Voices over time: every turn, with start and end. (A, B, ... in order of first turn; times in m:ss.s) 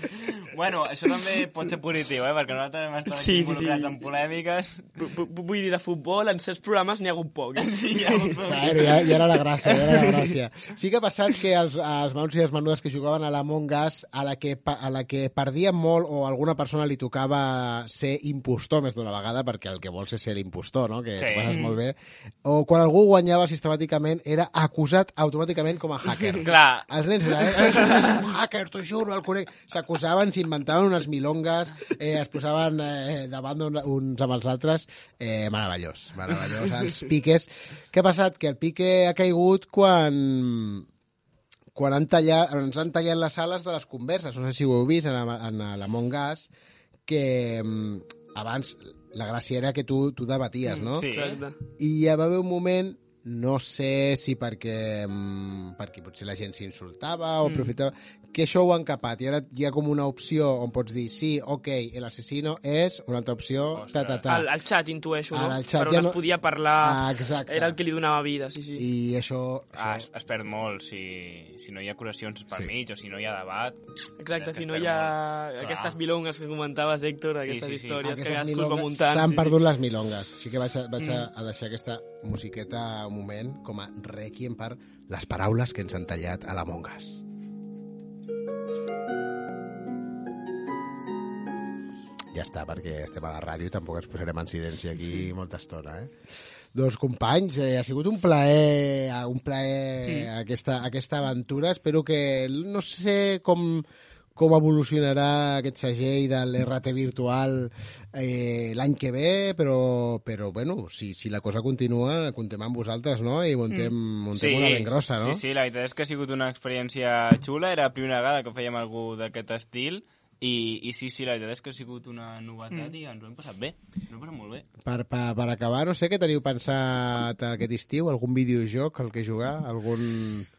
0:00.2-0:04.9 A
0:03.1-0:03.9 B
0:05.0-0:08.3 B
0:07.6-0:09.2 A
0:08.4-0:40.9 C
0:21.2-0:21.6 A
0:21.5-0:21.7 B
0:26.4-0:26.9 A
0:41.7-0:46.5 C
0:47.1-0:51.1 C
0:50.7-0:51.6 B
0:51.0-0:51.4 A
0:51.8-1:04.5 C
0:57.4-0:57.7 B
1:03.7-1:04.2 A
1:04.3-1:08.8 B
1:05.3-1:06.2 C
1:06.8-1:07.8 C
1:08.8-1:10.1 C
1:09.8-1:13.8 A
1:14.2-1:19.5 B
1:14.4-1:16.0 A
1:17.4-1:18.0 A
1:18.0-1:27.2 C
1:21.0-1:21.2 B
1:32.3-1:36.1 C
1:36.7-1:55.4 C
1:54.3-2:04.6 A
2:04.8-2:10.5 C